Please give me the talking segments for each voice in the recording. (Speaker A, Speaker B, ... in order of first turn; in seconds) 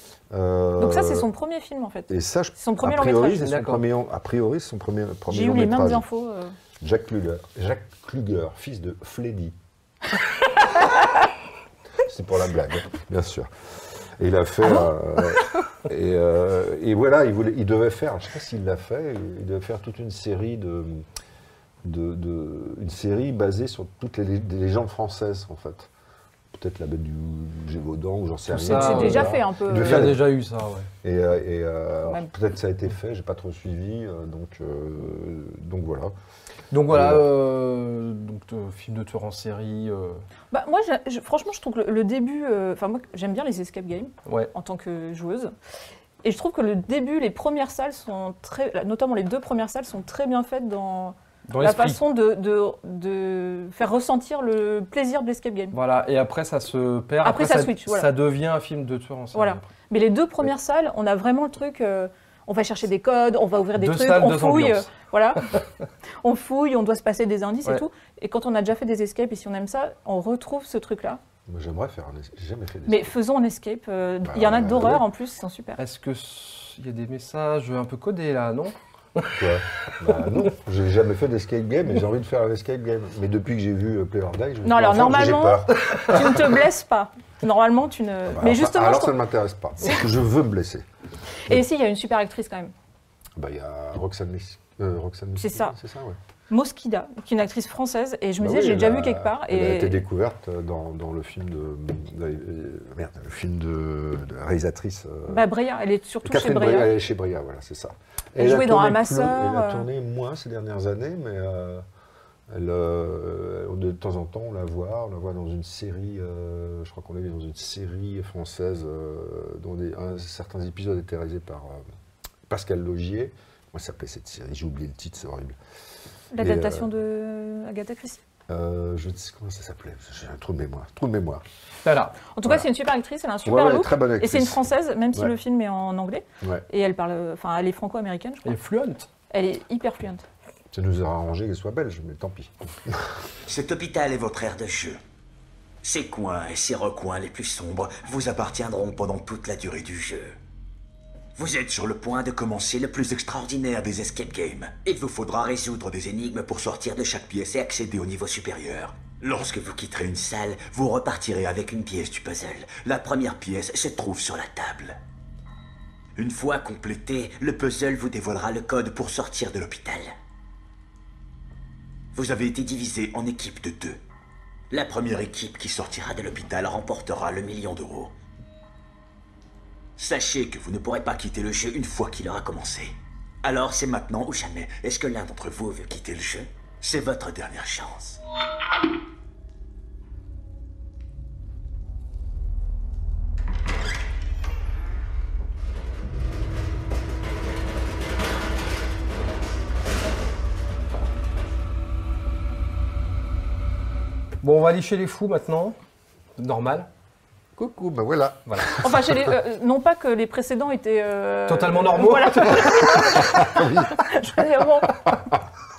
Speaker A: 0.3-1.3, 2.1-6.0, 6.8-9.6, 12.0-21.1, 21.8-25.9, 26.5-30.3, 31.0-36.1, 36.9-37.2, 71.5-73.2, 74.2-75.0, 79.3-86.2, 88.3-90.9, 93.4-96.2, 98.4-105.5, 106.2-111.8, 112.5-121.8, 122.5-125.6, 126.4-126.9, 128.5-131.4, 133.4-134.6, 140.7-143.0, 207.6-209.3, 213.2-214.2
Speaker B: 0.8-3.5, 5.3-6.5, 28.5-30.1, 40.5-45.5, 46.2-55.8, 57.2-58.1, 59.3-65.5, 66.2-71.2, 72.9-75.8, 84.6-89.2, 91.5-92.7, 95.4-95.7, 96.5-100.0, 105.3-106.9, 108.4-109.9, 126.3-128.2, 132.3-138.5, 139.3-140.2, 208.7-215.0
Speaker C: 3.4-3.8, 28.6-30.9, 36.7-40.2, 44.3-44.5, 51.5-52.0, 55.7-59.7, 63.8-65.6, 75.8-79.4, 131.8-132.2, 138.4-139.1, 204.4-205.8, 206.4-206.9, 208.5-208.7, 211.5-213.4
Speaker D: 143.5-145.0, 145.8-150.4, 151.4-165.0, 166.2-170.1, 172.1-174.0, 174.7-178.1, 180.0-188.2